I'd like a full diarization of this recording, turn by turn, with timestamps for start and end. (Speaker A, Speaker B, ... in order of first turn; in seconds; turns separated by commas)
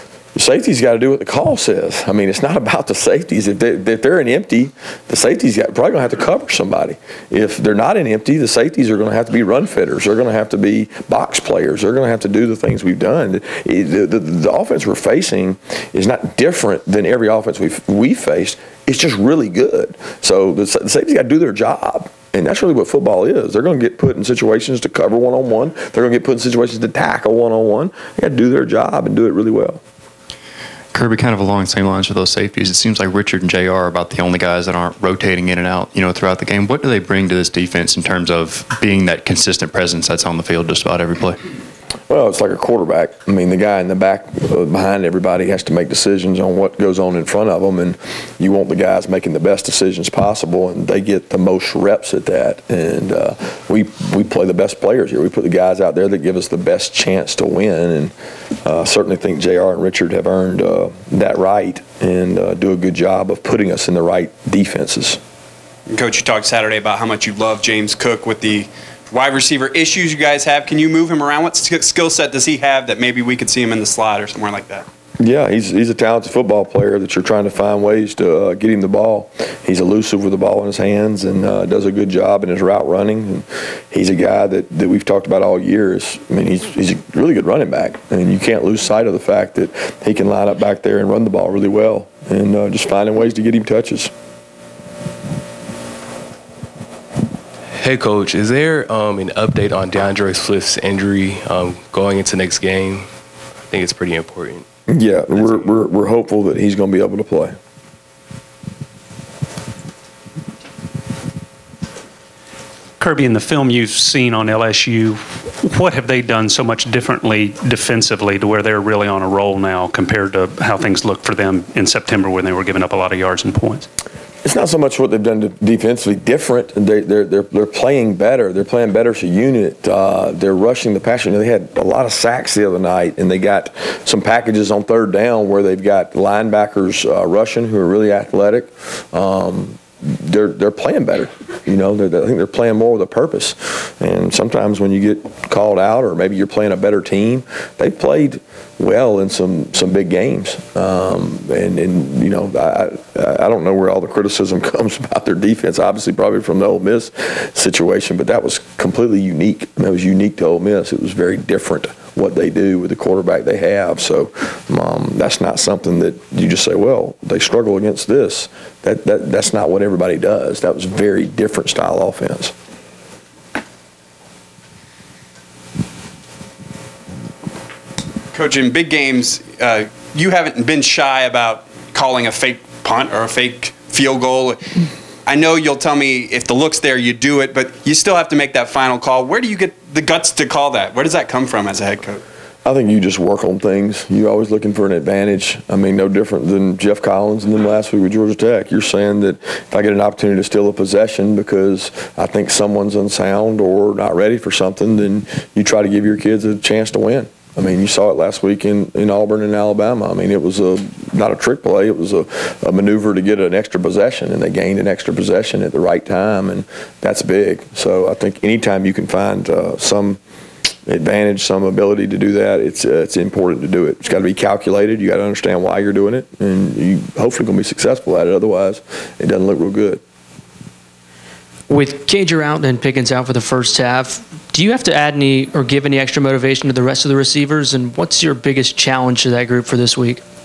Speaker A: 0.3-29.8, Speaker B: 30.9-41.4, Speaker A: 42.1-58.1, Speaker A: 58.6-65.2, Speaker C: 65.9-74.8, Speaker A: 75.2-94.1, Speaker D: 97.7-103.1, Speaker D: 103.7-104.6, Speaker A: 104.9-107.5, Speaker D: 105.3-105.7, Speaker E: 113.0-123.9, Speaker A: 124.4-172.5, Speaker C: 178.3-184.6, Speaker C: 185.3-192.2, Speaker A: 192.7-220.2, Speaker A: 220.9-230.0, Speaker F: 231.7-240.2